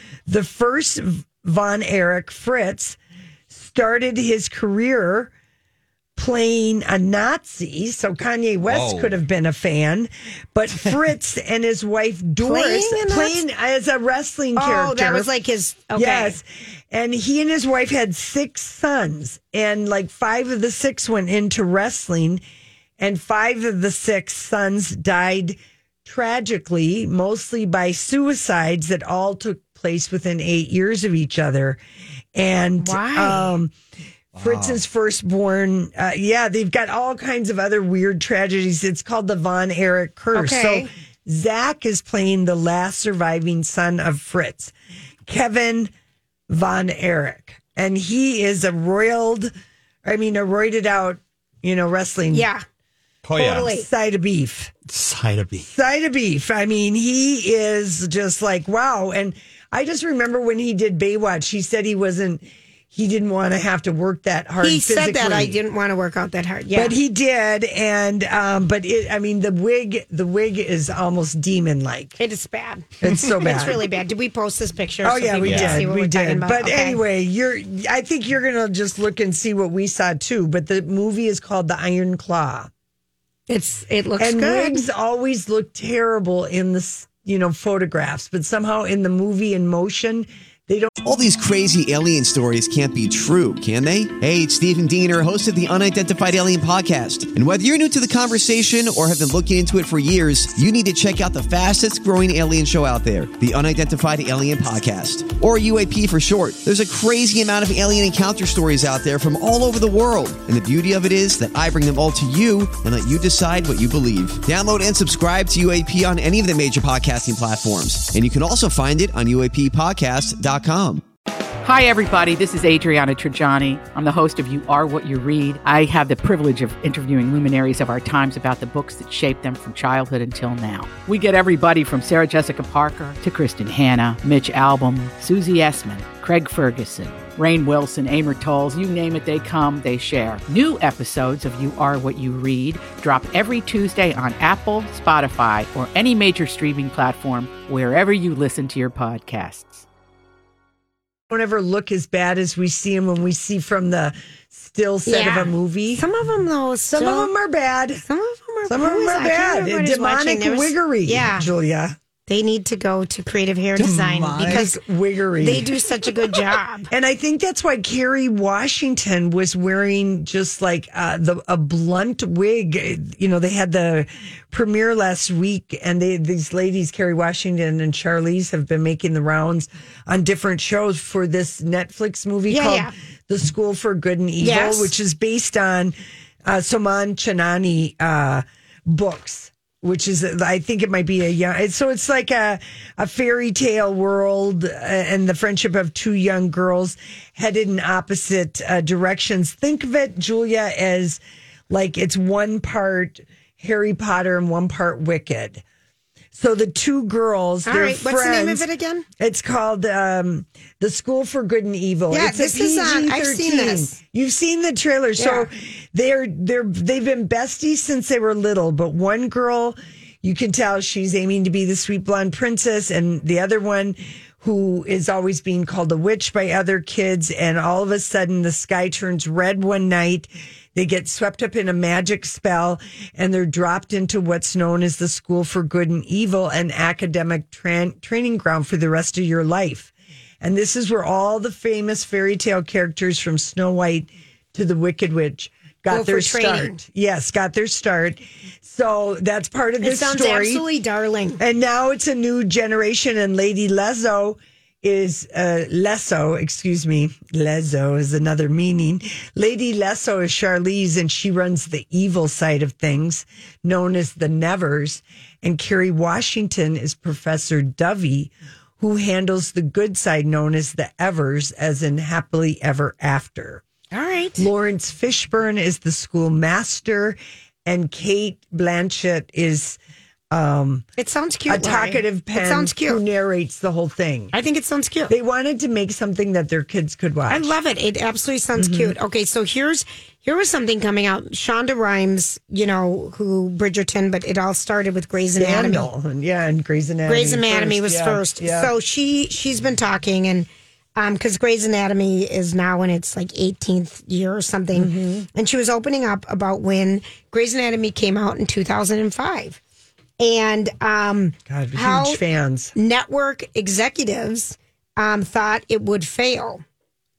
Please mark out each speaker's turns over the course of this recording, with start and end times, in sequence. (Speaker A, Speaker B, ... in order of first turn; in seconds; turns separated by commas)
Speaker A: 0.3-3.0, Speaker A: 3.5-5.3, Speaker A: 6.2-15.3, Speaker B: 8.6-9.2, Speaker C: 12.4-13.4, Speaker C: 14.6-16.4, Speaker A: 15.9-22.4, Speaker A: 23.0-31.8, Speaker A: 32.3-33.7, Speaker C: 32.8-33.5, Speaker B: 34.4-34.8, Speaker A: 34.4-44.7, Speaker C: 40.3-40.9, Speaker A: 45.3-45.9, Speaker A: 46.5-49.5, Speaker A: 50.0-52.5, Speaker C: 52.3-52.6, Speaker B: 53.2-53.7, Speaker C: 53.4-53.9, Speaker A: 53.4-54.7, Speaker B: 54.9-55.6, Speaker A: 55.6-65.6, Speaker C: 64.6-66.9, Speaker A: 66.7-72.2, Speaker C: 72.2-77.0, Speaker A: 73.0-73.8, Speaker A: 75.0-82.7, Speaker B: 75.4-75.9, Speaker C: 83.5-84.8, Speaker A: 84.2-90.9, Speaker D: 91.0-121.0, Speaker E: 121.6-149.8, Speaker A: 151.3-156.0, Speaker C: 155.1-157.3, Speaker A: 156.9-158.0, Speaker C: 158.0-161.5, Speaker A: 158.7-161.9, Speaker C: 162.3-164.8, Speaker B: 163.8-164.7, Speaker A: 164.4-165.7, Speaker C: 165.4-166.9, Speaker A: 166.9-205.6, Speaker C: 182.5-182.9, Speaker C: 184.4-184.9, Speaker A: 206.3-208.7, Speaker C: 207.6-209.1, Speaker A: 209.2-250.6, Speaker C: 212.1-213.9, Speaker C: 215.2-215.5, Speaker C: 245.9-246.8, Speaker C: 249.8-251.4, Speaker A: 251.4-273.6, Speaker C: 273.9-274.5, Speaker A: 274.4-279.8, Speaker A: 280.3-280.9, Speaker C: 281.0-283.0, Speaker A: 281.5-284.3, Speaker C: 284.3-285.1, Speaker A: 285.1-287.5, Speaker C: 287.3-295.9, Speaker A: 288.6-288.9, Speaker A: 295.4-298.7, Speaker C: 297.1-309.6, Speaker A: 304.7-305.3, Speaker C: 310.2-312.2, Speaker A: 311.5-312.7, Speaker C: 312.7-316.6